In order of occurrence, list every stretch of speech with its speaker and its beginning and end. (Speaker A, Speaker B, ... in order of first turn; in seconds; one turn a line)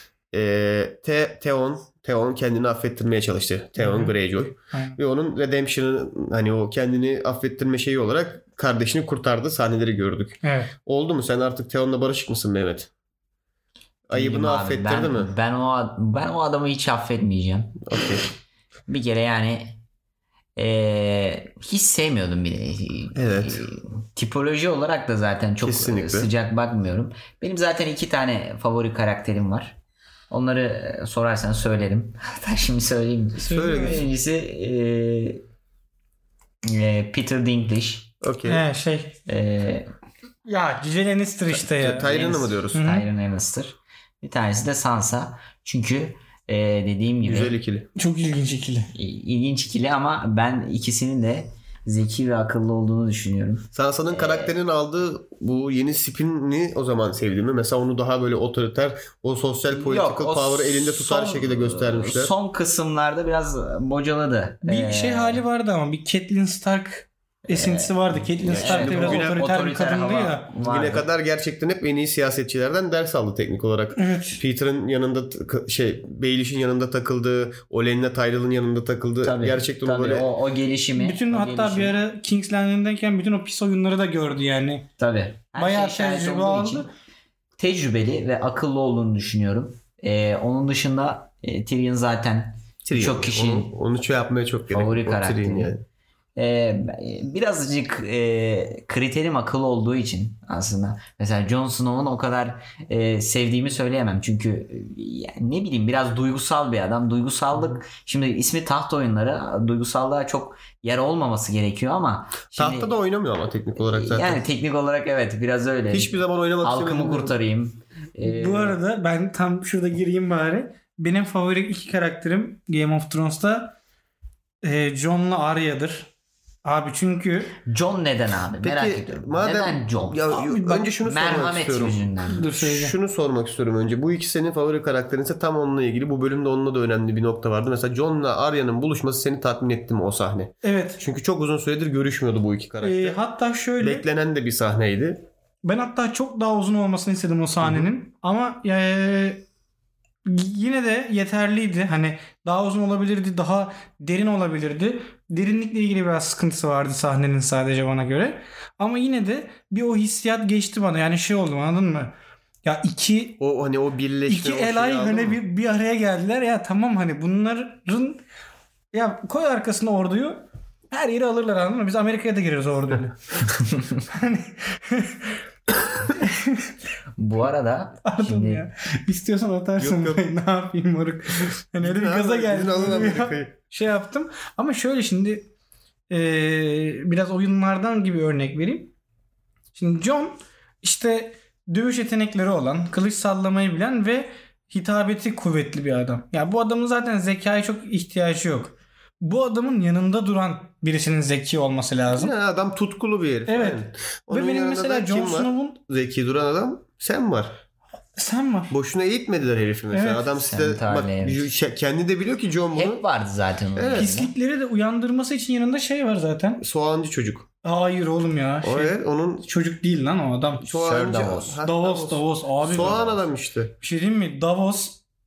Speaker A: 0.3-12.9
Speaker B: 3.8-4.1
Speaker B: 4.7-5.0
Speaker B: 10.4-10.7
Speaker A: 14.1-15.3
Speaker C: 14.1-17.8
Speaker A: 17.9-18.2
Speaker C: 18.9-19.8
Speaker C: 20.6-29.8
Speaker A: 23.1-23.6
Speaker A: 25.6-26.3
Speaker C: 30.3-35.4
Speaker B: 33.4-34.0
Speaker A: 33.4-34.1
Speaker C: 36.6-38.1
Speaker A: 38.2-38.6
Speaker B: 38.5-39.2
Speaker C: 39.3-39.9
Speaker B: 40.5-42.1
Speaker A: 41.5-42.8
Speaker C: 42.0-47.6
Speaker B: 42.7-43.1
Speaker A: 47.2-47.9
Speaker B: 48.0-48.9
Speaker C: 48.9-54.6
Speaker A: 53.7-62.3
Speaker C: 59.7-65.4
Speaker B: 64.7-70.5
Speaker C: 67.5-71.1
Speaker A: 68.4-69.4
Speaker A: 70.6-80.3
Speaker B: 74.0-74.4
Speaker C: 79.2-82.0
Speaker B: 81.0-84.9
Speaker C: 85.0-86.9
Speaker B: 85.5-86.9
Speaker C: 87.6-93.7
Speaker A: 92.8-95.8
Speaker C: 94.7-95.7
Speaker C: 96.4-112.9
Speaker A: 112.5-114.4
Speaker C: 113.8-118.8
Speaker A: 115.9-117.4
Speaker B: 118.2-123.8
Speaker B: 124.6-126.1
Speaker B: 126.6-127.6
Speaker C: 127.7-130.4
Speaker A: 128.6-143.2
Speaker B: 130.4-130.9
Speaker C: 131.0-132.5
Speaker B: 132.3-133.0
Speaker B: 140.6-141.0
Speaker B: 142.8-144.1
Speaker A: 143.8-145.2
Speaker B: 145.6-149.4
Speaker A: 147.6-147.9
Speaker B: 150.2-162.1
Speaker B: 162.6-163.4
Speaker A: 163.4-165.4
Speaker B: 164.3-168.2
Speaker B: 168.9-173.5
Speaker B: 174.1-175.3
Speaker B: 176.1-176.7
Speaker C: 177.2-178.7
Speaker B: 178.1-185.5
Speaker A: 179.8-180.2
Speaker A: 181.8-183.6
Speaker B: 186.1-188.9
Speaker B: 189.8-202.3
Speaker A: 202.1-207.6
Speaker B: 203.5-205.8
Speaker B: 208.2-208.7
Speaker A: 208.7-213.0
Speaker B: 209.9-210.3
Speaker C: 210.3-211.5
Speaker C: 212.7-214.3
Speaker A: 213.8-214.1
Speaker B: 213.9-216.6
Speaker A: 216.6-217.5
Speaker B: 217.6-220.7
Speaker A: 218.6-219.5
Speaker A: 220.6-223.7
Speaker C: 220.8-221.6
Speaker B: 221.6-223.2
Speaker B: 223.8-225.0